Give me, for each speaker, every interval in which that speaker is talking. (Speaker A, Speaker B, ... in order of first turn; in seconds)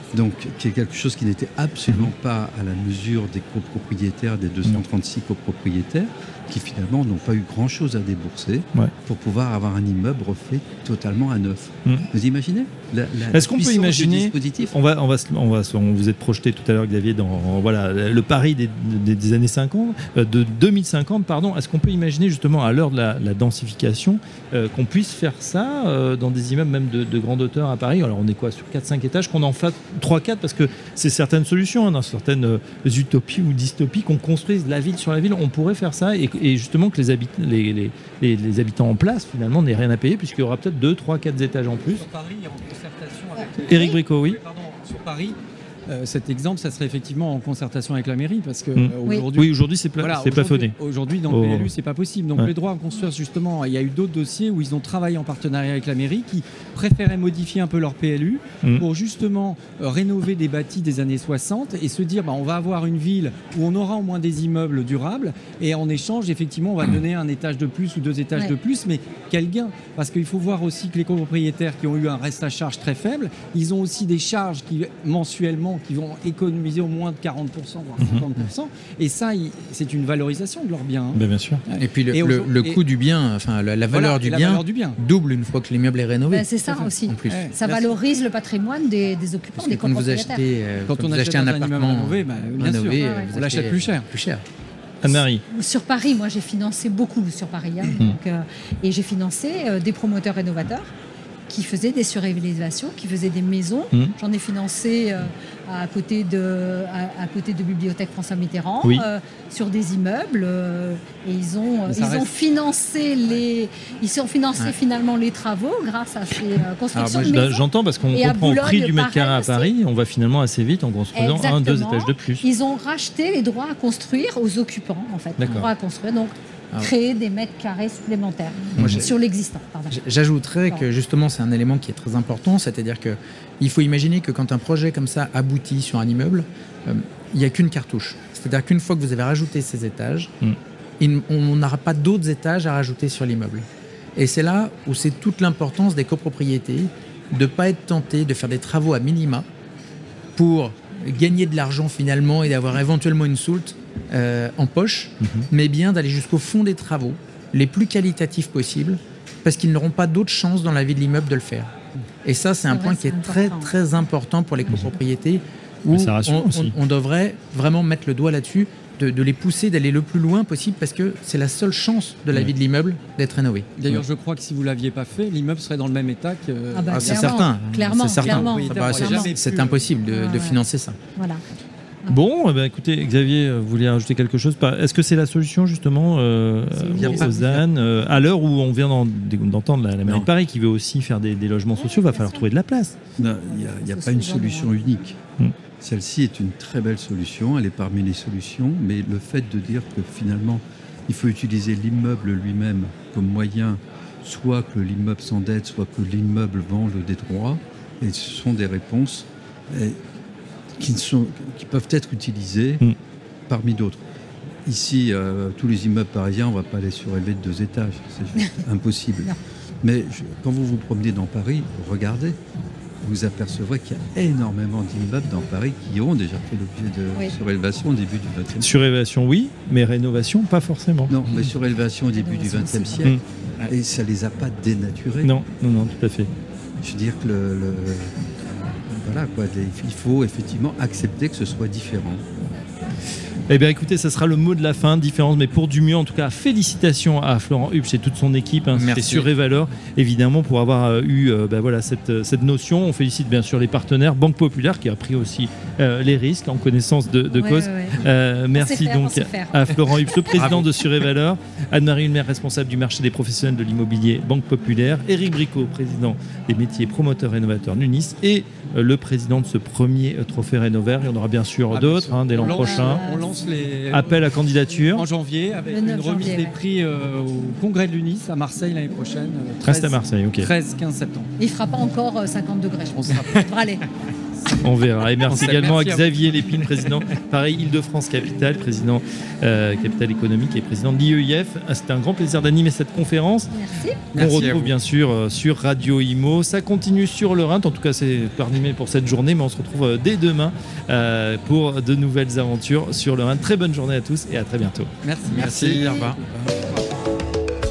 Speaker A: 0.1-14.7, 186.9-187.6, 190.0-190.3, 193.2-195.2, 195.8-210.0, 210.8-212.8, 213.5-214.0, 214.6-222.4, 223.0-228.7, 231.1-235.3, 236.8-238.1, 238.8-242.2
Speaker B: 13.3-42.0, 43.7-44.4, 48.8-50.7, 51.3-51.7, 78.0-78.2, 81.1-81.6, 95.0-95.4, 117.1-122.4, 125.4-125.7, 128.8-129.0, 155.2-155.5, 165.9-166.7, 182.1-192.9, 228.6-231.3, 235.2-236.3, 243.5-273.0, 273.9-275.0, 279.6-280.5, 284.6-293.5, 294.1-305.8
Speaker C: 41.7-45.4, 45.9-82.8, 83.9-85.0, 87.3-87.9, 90.8-94.1, 111.9-112.3, 173.8-177.5, 178.1-179.8, 271.7-274.2, 274.8-281.3, 282.9-283.5, 284.4-284.7, 285.2-286.9, 294.1-294.6, 305.0-306.9
Speaker D: 81.8-87.5, 89.6-94.4, 116.9-117.4, 128.7-129.1, 129.9-140.3, 141.0-149.4, 150.3-173.7, 176.9-181.0, 248.8-249.3, 294.1-294.7, 305.3-306.2
Speaker E: 86.3-90.4, 93.0-93.3, 95.5-100.9, 101.5-119.7, 121.1-130.0, 162.7-163.7, 176.7-179.3, 180.1-180.6, 181.2-181.4, 186.7-187.3, 191.8-192.4, 193.5-194.8, 232.1-233.1, 257.3-258.0, 258.5-260.5, 272.4-273.3, 275.6-276.6, 281.4-283.8, 293.5-294.1